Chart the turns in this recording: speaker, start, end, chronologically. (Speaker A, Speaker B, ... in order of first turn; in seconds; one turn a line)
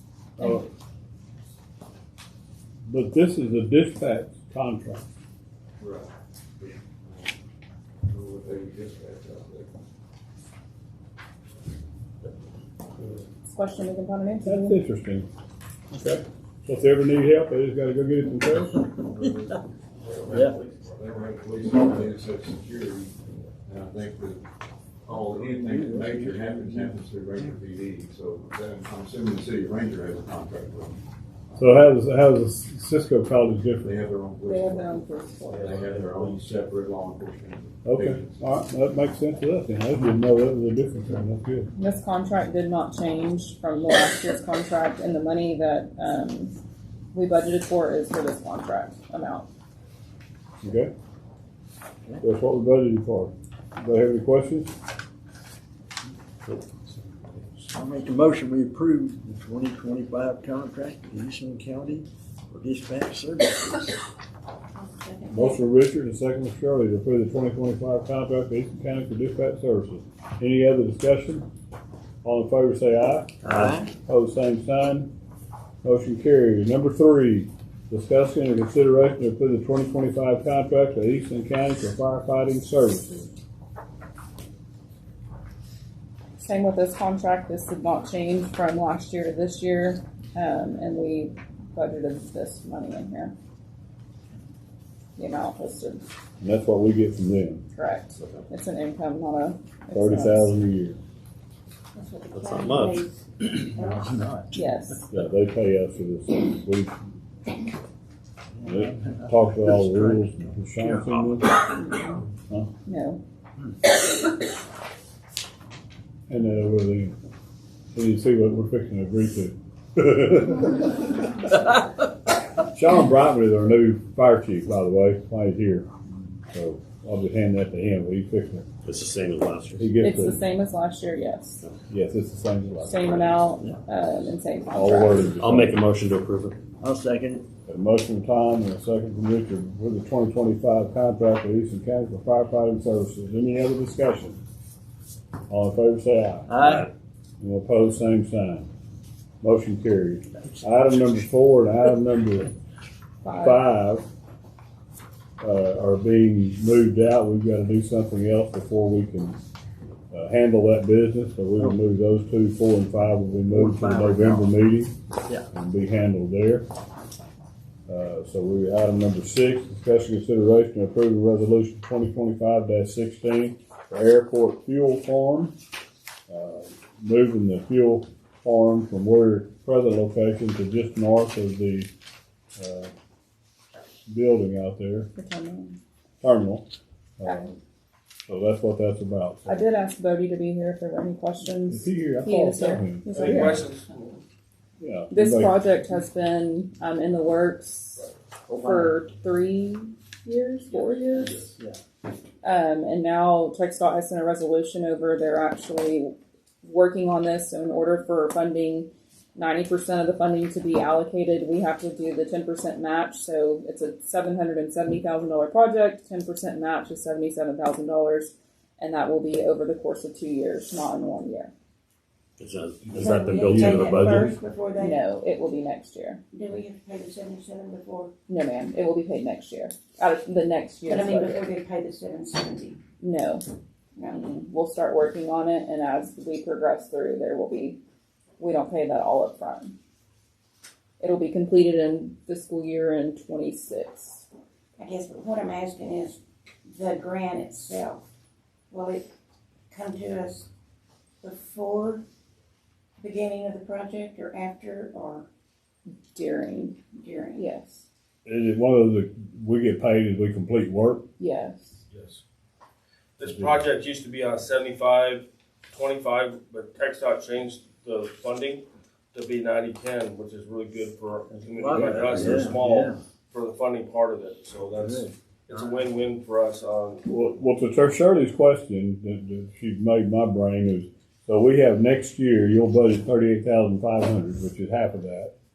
Speaker A: 0.4-0.6
Speaker B: 0.4-0.7
Speaker B: 2.9-5.0
Speaker C: 5.8-7.3
Speaker C: 8.0-9.7
Speaker A: 13.4-14.8
Speaker B: 14.4-15.3
Speaker B: 15.9-18.9
Speaker C: 19.0-23.1
Speaker D: 20.3-20.6
Speaker C: 23.7-24.4
Speaker C: 25.1-31.0
Speaker D: 25.4-26.9
Speaker B: 31.6-33.9
Speaker C: 33.8-38.4
Speaker A: 34.5-35.7
Speaker E: 35.5-36.4
Speaker B: 37.8-41.7
Speaker A: 41.8-46.5
Speaker A: 47.1-49.5
Speaker B: 50.6-50.9
Speaker B: 52.2-54.7
Speaker C: 57.0-57.7
Speaker D: 57.7-63.9
Speaker F: 64.8-65.6
Speaker B: 65.3-71.5
Speaker B: 72.2-75.1
Speaker D: 73.4-73.9
Speaker B: 75.8-83.3
Speaker A: 86.4-93.3
Speaker A: 95.2-96.0
Speaker B: 96.4-97.6
Speaker A: 97.8-100.5
Speaker B: 99.9-101.0
Speaker F: 101.9-104.1
Speaker E: 102.3-103.0
Speaker D: 103.4-105.0
Speaker A: 104.5-105.1
Speaker B: 105.1-107.0
Speaker D: 108.6-111.4
Speaker B: 108.6-111.5
Speaker A: 111.8-112.2
Speaker A: 112.8-113.2
Speaker B: 116.3-117.2
Speaker B: 117.9-121.1
Speaker B: 122.6-125.9
Speaker B: 126.5-128.7
Speaker E: 128.8-129.9
Speaker B: 129.8-130.4
Speaker A: 130.0-131.6
Speaker B: 131.9-133.3
Speaker A: 132.8-135.3
Speaker B: 134.7-135.8
Speaker E: 135.4-136.6
Speaker D: 136.8-137.4
Speaker B: 137.7-144.4
Speaker B: 145.5-146.8
Speaker D: 146.5-146.9
Speaker B: 147.4-148.7
Speaker B: 149.4-152.5
Speaker A: 153.2-153.6
Speaker B: 153.3-154.1
Speaker B: 155.4-159.4
Speaker B: 160.1-164.9
Speaker D: 163.5-164.6
Speaker B: 165.5-166.7
Speaker B: 167.9-175.5
Speaker B: 176.3-181.9
Speaker B: 182.6-182.9
Speaker B: 184.1-185.1
Speaker A: 185.2-185.8
Speaker B: 186.2-187.5
Speaker A: 187.2-187.5
Speaker B: 188.2-189.6
Speaker A: 189.5-193.7
Speaker B: 191.7-193.7
Speaker G: 193.2-194.0
Speaker B: 194.8-195.6
Speaker A: 195.1-201.5
Speaker D: 198.5-198.9
Speaker A: 202.4-221.5
Speaker E: 222.4-224.4
Speaker F: 222.9-225.0
Speaker B: 222.9-223.8
Speaker A: 224.8-226.2
Speaker F: 226.3-228.1
Speaker A: 228.3-231.5
Speaker F: 230.9-232.8
Speaker A: 233.0-233.5
Speaker F: 233.9-234.2
Speaker A: 234.0-237.8
Speaker A: 238.4-239.7
Speaker A: 241.0-244.2
Speaker F: 244.8-248.0
Speaker F: 248.7-249.1
Speaker F: 249.7-250.5
Speaker F: 251.2-252.0
Speaker F: 253.0-255.3
Speaker A: 256.1-256.8
Speaker F: 256.9-257.4
Speaker A: 257.3-257.8
Speaker B: 258.2-261.0
Speaker A: 261.2-261.8
Speaker G: 261.9-262.2
Speaker G: 263.2-277.1
Speaker B: 263.3-263.6
Speaker D: 271.5-273.0
Speaker D: 274.7-275.1
Speaker B: 277.1-285.3